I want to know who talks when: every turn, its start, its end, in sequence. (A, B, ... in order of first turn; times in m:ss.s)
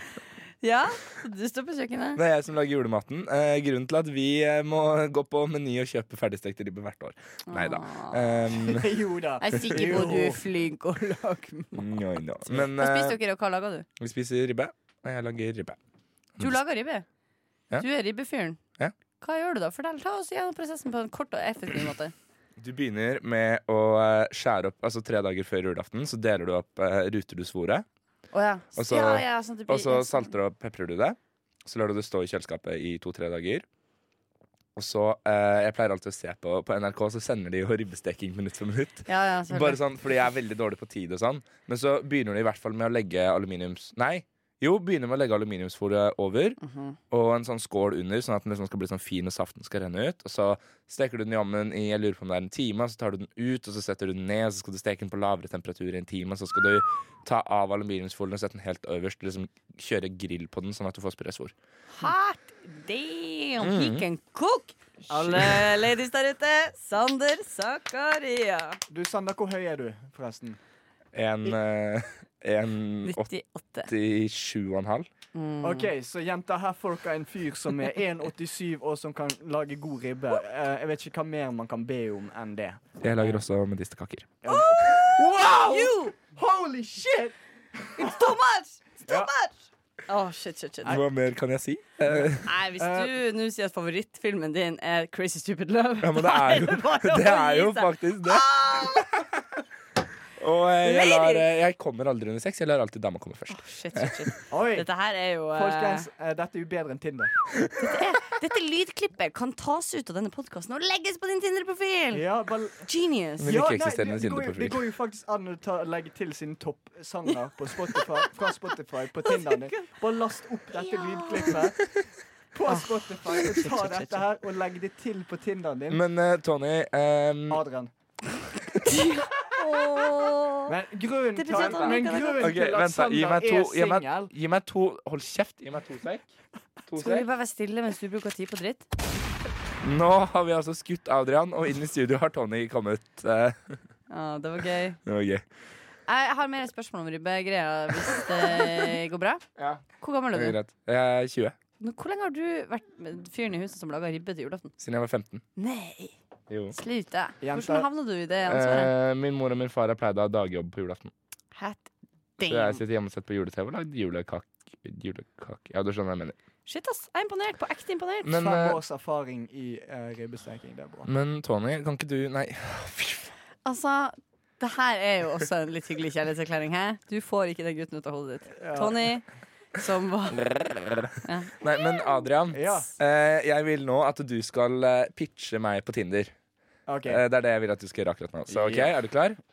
0:00.6-0:02.2 A
0:02.2-0:08.9 B
0:07.5-0:08.6 A
0:08.6-0:10.4 C
0:09.4-0:11.8 A
0:11.7-0:13.2 B
0:12.7-0:13.8 A
0:14.0-0:15.8 B
0:16.4-0:17.0 A
0:17.8-0:18.6 A
0:19.2-0:22.1 A
0:22.6-0:27.8 B
0:28.3-0:30.3 A
0:28.8-0:33.6 B
0:34.8-0:46.6 B
0:39.0-0:39.8 A
0:46.6-0:47.0 A
0:47.1-1:01.5 B
1:01.9-1:08.8 A
1:03.6-1:04.0 B
1:05.1-1:05.6 C
1:08.9-1:10.6 C
1:11.1-1:13.3 B
1:13.0-1:13.9 A
1:13.8-1:15.1 B
1:15.3-1:15.9 A
1:15.6-1:22.8 C
1:23.0-1:24.4 B
1:24.4-1:27.4 C
1:24.4-1:26.1 A
1:28.0-1:29.6 A
1:30.1-1:31.0 A
1:30.8-1:32.5 B
1:32.1-1:33.1 C
1:32.4-1:39.1 A
1:36.0-1:39.0 B
1:40.4-1:44.2 B
1:40.8-1:41.5 A
1:43.5-1:46.1 A
1:44.5-1:44.9 C
1:45.5-1:47.4 C
1:47.8-1:52.2 A
1:52.1-1:52.9 C
1:52.8-1:53.5 A
1:53.4-2:01.9 C
1:53.4-1:54.8 B
1:57.9-1:58.2 A
1:59.2-1:59.9 A
2:00.7-2:01.7 A
2:02.5-2:06.0 C
2:02.7-2:04.2 A
2:05.9-2:07.6 B
2:07.5-2:07.9 C
2:08.8-2:10.7 A
2:10.6-2:14.3 C
2:11.4-2:12.5 A
2:11.5-2:16.2 B
2:16.9-2:17.2 B
2:17.0-2:18.9 A
2:19.8-2:23.8 B
2:24.1-2:25.0 A
2:25.0-2:25.4 B
2:26.1-2:29.4 A
2:29.6-2:31.6 B
2:30.0-2:30.6 A
2:31.8-2:34.7 A
2:34.8-2:35.4 B
2:35.6-2:36.1 A
2:36.5-2:36.8 B
2:36.7-2:38.9 A
2:37.4-2:37.9 C
2:38.5-2:41.1 B
2:41.5-2:42.8 A
2:42.4-2:46.3 B
2:46.6-2:48.3 A
2:48.2-2:48.8 B
2:48.3-2:51.1 C
2:51.0-2:53.3 B
2:53.6-3:00.4 A
2:58.6-2:59.1 C
3:00.4-3:06.3 B
3:01.2-3:01.5 A
3:02.5-3:02.9 C
3:06.9-3:07.2 C
3:07.0-3:09.4 B
3:08.5-3:08.9 C